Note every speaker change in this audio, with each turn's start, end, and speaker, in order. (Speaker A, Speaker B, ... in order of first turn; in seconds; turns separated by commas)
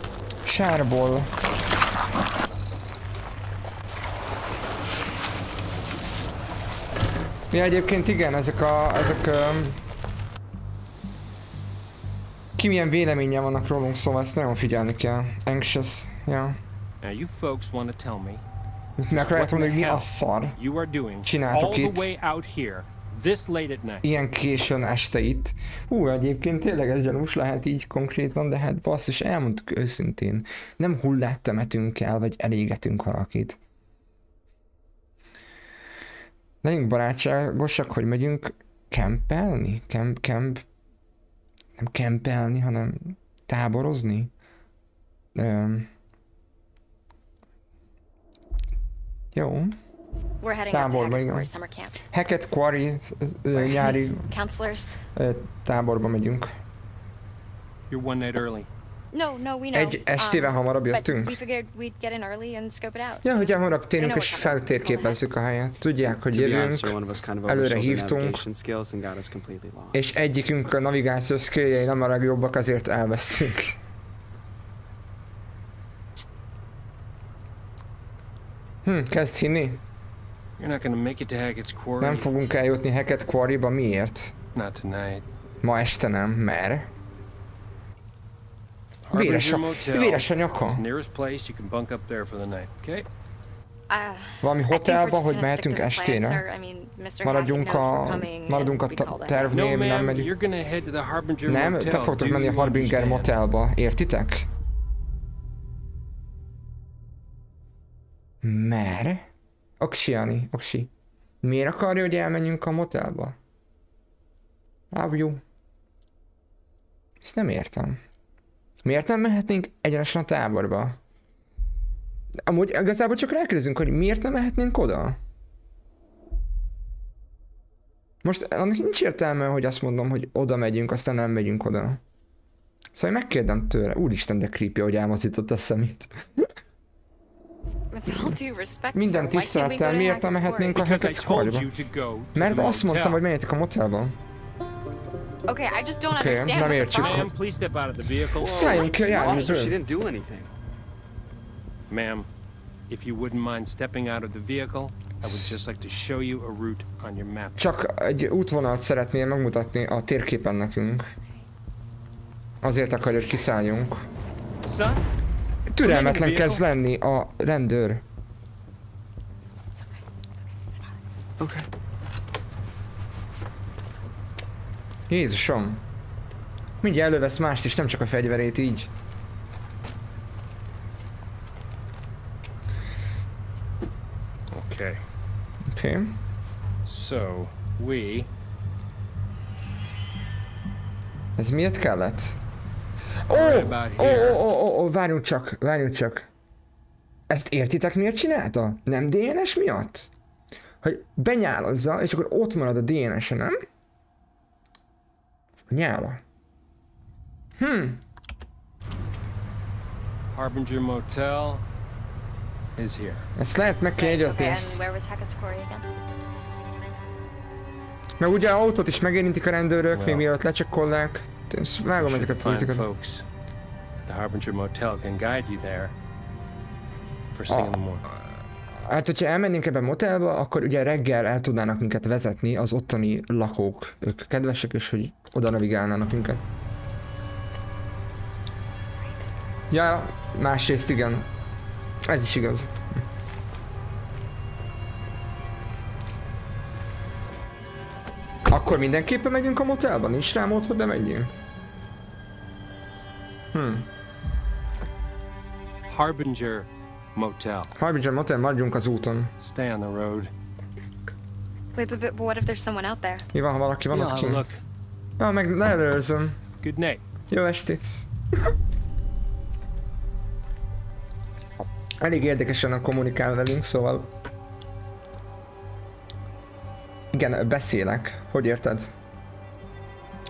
Speaker A: 0.5-1.3, Speaker A: 7.5-9.8, Speaker A: 12.6-16.6, Speaker B: 17.0-18.4, Speaker A: 19.0-20.6, Speaker B: 19.1-24.0, Speaker A: 21.2-22.1, Speaker A: 24.0-33.6, Speaker A: 36.6-40.6, Speaker A: 41.8-44.3, Speaker A: 45.4-45.9, Speaker A: 49.3-49.8, Speaker C: 50.4-52.0, Speaker A: 50.7-51.5, Speaker A: 52.1-54.3, Speaker C: 53.7-55.0, Speaker A: 55.1-56.5, Speaker B: 57.9-58.7, Speaker C: 59.1-63.4, Speaker A: 59.7-61.4, Speaker A: 63.2-68.4, Speaker C: 63.9-65.2, Speaker D: 66.1-70.0, Speaker A: 69.9-73.8, Speaker A: 78.8-79.8, Speaker B: 80.6-82.3, Speaker A: 82.0-84.3, Speaker B: 84.5-85.3, Speaker A: 85.6-86.9, Speaker B: 89.1-93.1, Speaker A: 89.1-90.8, Speaker C: 93.9-99.7, Speaker A: 94.4-96.4, Speaker A: 97.2-100.3, Speaker B: 99.5-103.3, Speaker A: 101.5-104.5, Speaker A: 108.4-109.3, Speaker A: 109.8-110.9, Speaker A: 111.4-113.4, Speaker A: 114.9-115.4, Speaker A: 117.2-118.0, Speaker A: 118.8-121.0, Speaker A: 122.5-125.2, Speaker A: 128.2-132.0, Speaker A: 132.9-136.5, Speaker C: 137.9-140.8, Speaker A: 138.1-138.4, Speaker A: 138.9-141.7, Speaker B: 140.8-143.2, Speaker A: 142.3-144.2, Speaker C: 145.5-147.3, Speaker A: 146.1-147.3, Speaker B: 146.9-148.9, Speaker D: 148.4-150.5, Speaker A: 148.4-149.8, Speaker C: 148.7-149.6, Speaker B: 151.9-152.3, Speaker B: 152.9-157.6, Speaker A: 155.2-155.6, Speaker A: 157.6-161.1, Speaker A: 162.6-164.1, Speaker B: 164.6-165.0, Speaker A: 165.7-168.0, Speaker B: 165.8-166.6, Speaker C: 169.8-170.0, Speaker D: 171.4-171.7, Speaker A: 175.1-175.8, Speaker A: 176.8-178.9, Speaker B: 184.5-185.0, Speaker A: 185.7-186.2, Speaker B: 186.8-188.3, Speaker A: 191.4-192.4, Speaker A: 193.3-196.3, Speaker B: 193.3-194.4, Speaker A: 197.3-200.1, Speaker A: 200.8-203.6, Speaker A: 205.7-206.2, Speaker A: 207.6-208.0, Speaker B: 210.3-211.6, Speaker B: 212.8-213.3, Speaker A: 213.4-214.8, Speaker C: 214.0-215.9, Speaker A: 218.2-222.9, Speaker B: 219.9-220.3, Speaker B: 222.0-223.3, Speaker B: 224.0-225.9, Speaker B: 227.3-228.0, Speaker A: 227.5-227.8, Speaker A: 228.9-236.4, Speaker A: 239.7-241.3, Speaker A: 242.1-242.8, Speaker A: 248.5-251.3, Speaker A: 253.5-253.9, Speaker B: 255.9-257.7, Speaker A: 257.8-259.3, Speaker B: 259.4-260.3, Speaker C: 261.8-263.3, Speaker A: 263.3-264.4, Speaker B: 263.9-264.6, Speaker A: 265.2-266.4, Speaker B: 266.6-267.0, Speaker A: 267.3-268.1, Speaker A: 272.0-274.1, Speaker A: 277.1-278.9